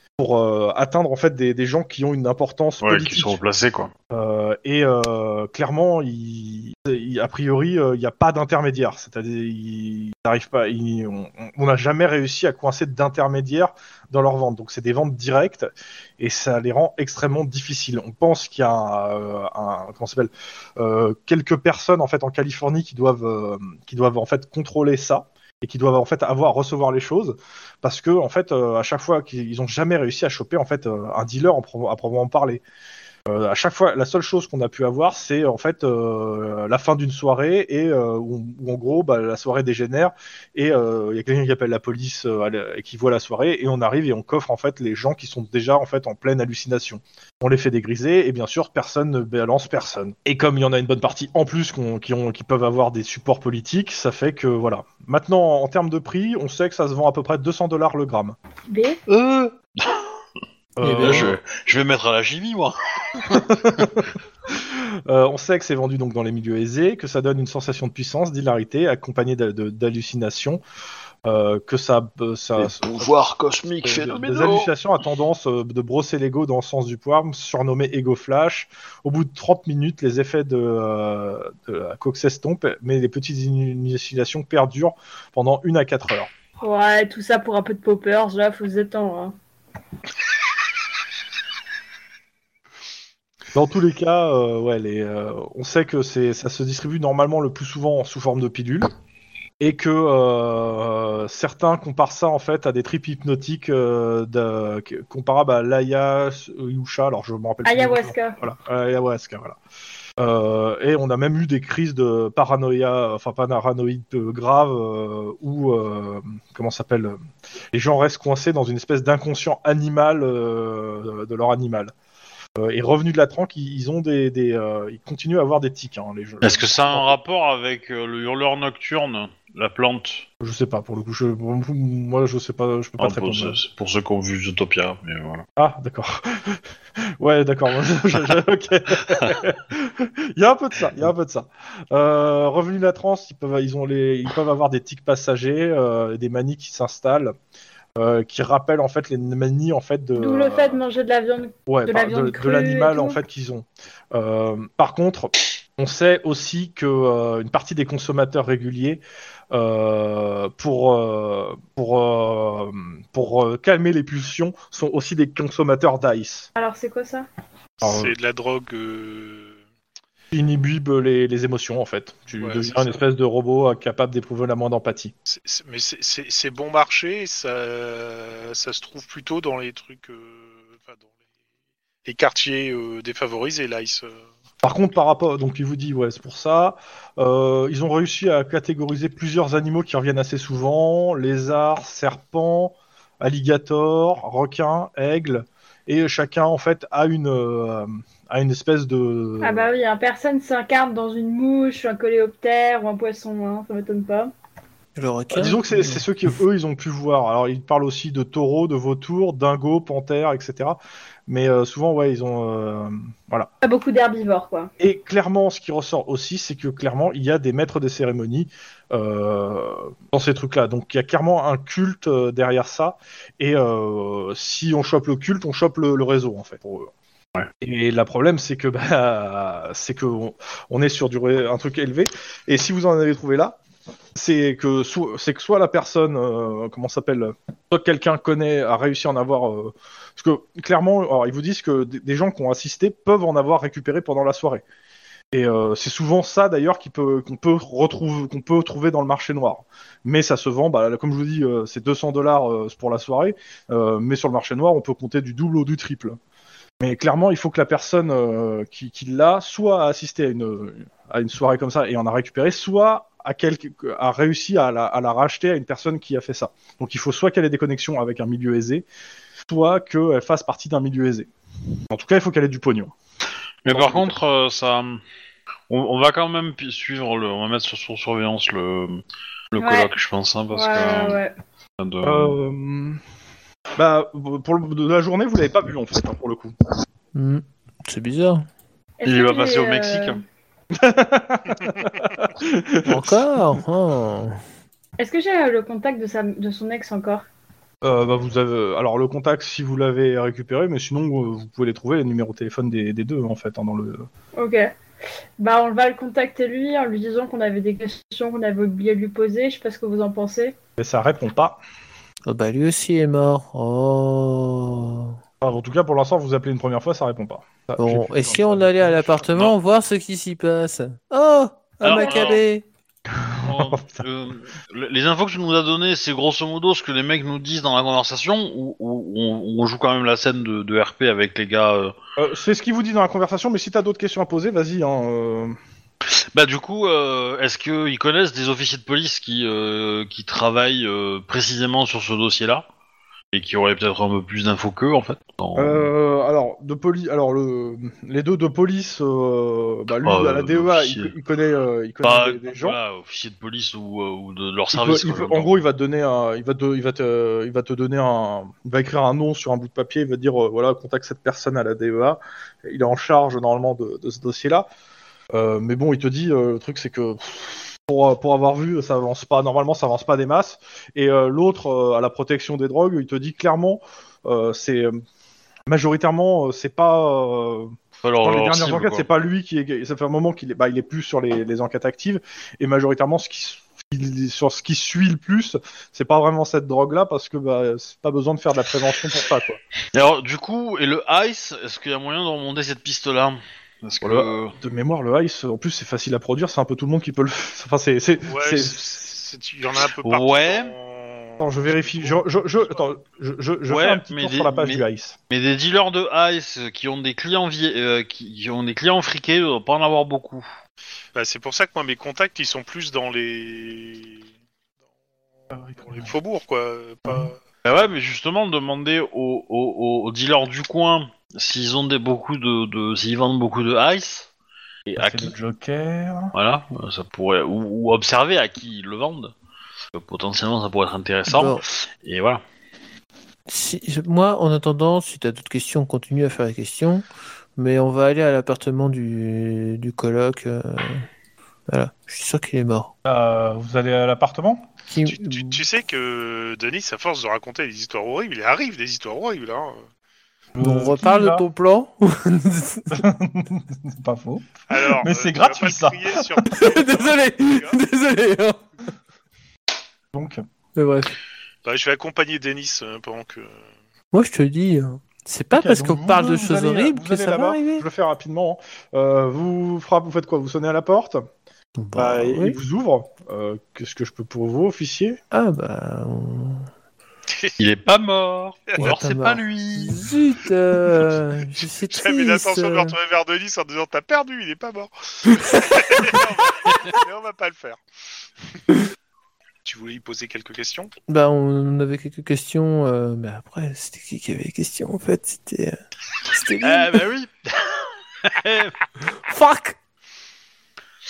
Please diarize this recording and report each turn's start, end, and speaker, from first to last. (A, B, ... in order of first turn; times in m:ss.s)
0:00.2-0:03.4 A
0:02.8-0:03.9 B
0:04.1-0:15.7 A
0:16.2-0:32.6 A
0:33.3-0:58.4 A
0:58.7-0:59.0 C
0:59.1-1:00.0 B
1:00.8-1:01.4 A
1:00.8-1:01.3 D
1:01.0-1:03.8 B
1:03.3-1:10.6 A
1:11.2-1:13.1 A
1:12.6-1:14.7 B
1:13.8-1:26.3 A
1:26.6-1:29.3 C
1:33.5-1:38.9 A
1:39.6-1:49.6 A
1:47.6-1:48.4 C
1:50.2-1:57.2 A
1:57.7-2:01.9 A
2:02.6-2:07.2 A
2:06.4-2:10.2 B
2:10.4-2:13.6 A
2:13.0-2:15.4 B
2:15.6-2:16.6 A
2:17.2-2:27.3 A
2:27.9-2:30.8 A
2:30.1-2:33.2 C
2:31.7-2:46.5 A
2:46.6-2:47.3 C
2:47.8-2:48.1 A
2:47.8-2:49.6 E
2:50.3-2:55.1 A
2:52.4-2:53.0 E
2:55.3-3:01.0 E
3:02.0-3:04.2 E
3:04.6-3:19.7 A
3:19.4-3:24.3 C
3:25.0-3:26.0 D
3:25.3-3:33.5 A
3:33.6-3:34.7 C
3:34.8-3:46.9 A
3:47.6-3:53.6 A
3:54.1-4:04.6 A
4:05.3-4:16.2 A
4:16.8-4:28.8 A
4:29.4-4:31.3 A
4:31.9-4:32.9 A
4:33.6-4:35.0 B
4:33.6-4:34.2 A
4:35.7-4:41.2 B
4:39.6-4:39.9 C
4:40.5-4:41.3 C
4:41.8-4:42.3 B
4:42.0-4:43.0 A
4:43.8-4:46.5 A
4:47.1-4:48.4 D
4:49.0-4:50.2 C
4:49.0-4:50.2 B
4:50.7-4:53.2 A
4:52.8-4:54.4 D
4:55.0-4:57.2 C
4:57.8-5:04.1 A
5:04.4-5:04.7 C
5:05.4-5:10.5 C
5:10.8-5:11.6 A
5:12.3-5:15.2 D
5:15.4-5:19.3 A
5:17.8-5:22.6 D
5:21.8-5:22.4 B
5:21.9-5:22.4 C
5:23.1-5:24.0 A
5:23.4-5:31.9 B
5:32.2-5:35.6 A
5:36.0-5:42.6 B
5:43.3-5:45.9 B
5:45.6-5:52.8 A
5:50.0-5:51.1 B
5:52.0-5:55.6 B
5:54.7-6:04.7 A
6:05.3-6:14.9 A
6:15.7-6:29.6 A
6:18.0-6:19.0 B
6:29.9-6:34.5 B
6:34.0-6:39.0 A
6:38.3-6:42.7 E
6:40.0-6:40.7 B
6:41.4-6:45.2 A
6:43.7-6:50.4 B
6:51.1-6:54.2 E
6:55.5-6:56.1 A
6:55.8-6:57.4 E
6:57.0-6:57.3 A
6:57.6-7:04.3 B
7:04.8-7:05.3 B
7:05.0-7:06.3 A
7:06.3-7:09.3 B
7:09.9-7:12.4 B
7:11.3-7:11.6 D
7:13.5-7:17.0 D
7:17.6-7:21.0 D
7:21.7-7:22.9 D
7:23.0-7:24.7 A
7:24.9-7:25.6 D
7:25.1-7:29.8 E
7:30.6-7:31.4 A
7:30.6-7:33.0 D
7:32.9-7:36.3 A
7:34.7-7:37.8 E
7:36.5-7:38.6 D
7:40.1-7:40.4 A
7:40.8-7:41.2 D
7:41.6-7:43.5 E
7:44.1-7:47.8 D
7:45.5-7:51.2 A
7:51.8-7:52.6 D
7:52.0-7:55.2 A
7:55.3-7:56.7 D
7:57.6-8:00.0 B
7:58.8-8:02.9 D
8:01.9-8:07.8 E
8:05.2-8:06.2 D
8:09.6-8:10.9 E
8:11.1-8:15.8 D
8:16.3-8:17.0 D
8:16.6-8:18.8 B
8:19.3-8:19.8 D